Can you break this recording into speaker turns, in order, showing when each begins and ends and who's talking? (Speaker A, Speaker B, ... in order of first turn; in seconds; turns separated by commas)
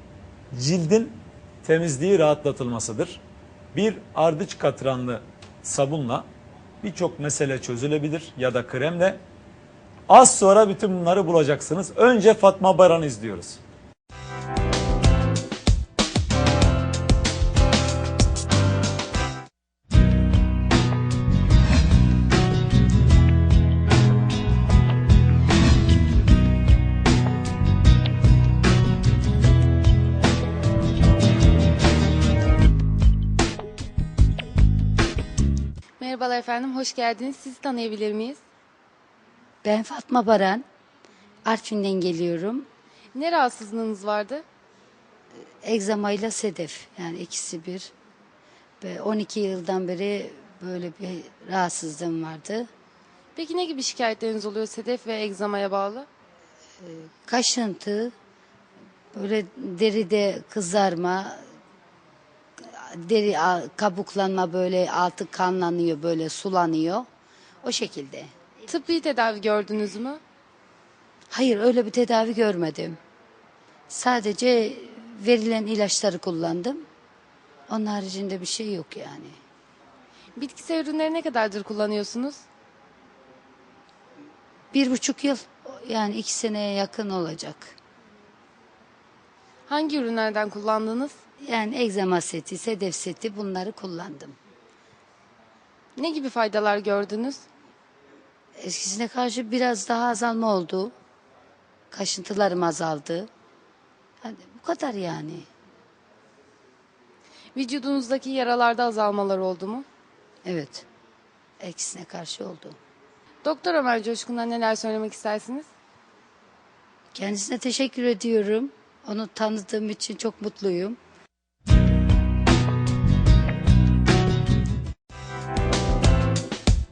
Speaker A: 0.5-3.2, Speaker A: 3.7-6.3, Speaker A: 6.8-9.2, Speaker A: 10.1-13.6, Speaker B: 36.0-38.4, Speaker C: 39.6-40.6, Speaker C: 41.4-42.7, Speaker B: 43.1-44.4, Speaker C: 45.6-47.9, Speaker C: 48.8-52.7, Speaker B: 53.4-56.1, Speaker C: 56.8-58.1, Speaker C: 59.1-61.4, Speaker C: 62.9-67.1, Speaker C: 67.6-68.3, Speaker B: 68.7-70.2, Speaker C: 71.3-73.0, Speaker C: 73.9-76.8, Speaker C: 77.7-79.4, Speaker B: 80.3-82.4, Speaker C: 84.7-87.7, Speaker B: 89.7-91.1, Speaker C: 91.4-94.3, Speaker B: 96.0-97.4, Speaker C: 98.6-100.9, Speaker C: 101.9-103.3, Speaker C: 104.2-105.5, Speaker B: 107.5-109.8, Speaker C: 110.4-110.8, Speaker C: 111.6-112.8, Speaker B: 113.4-115.7, Speaker C: 117.1-121.0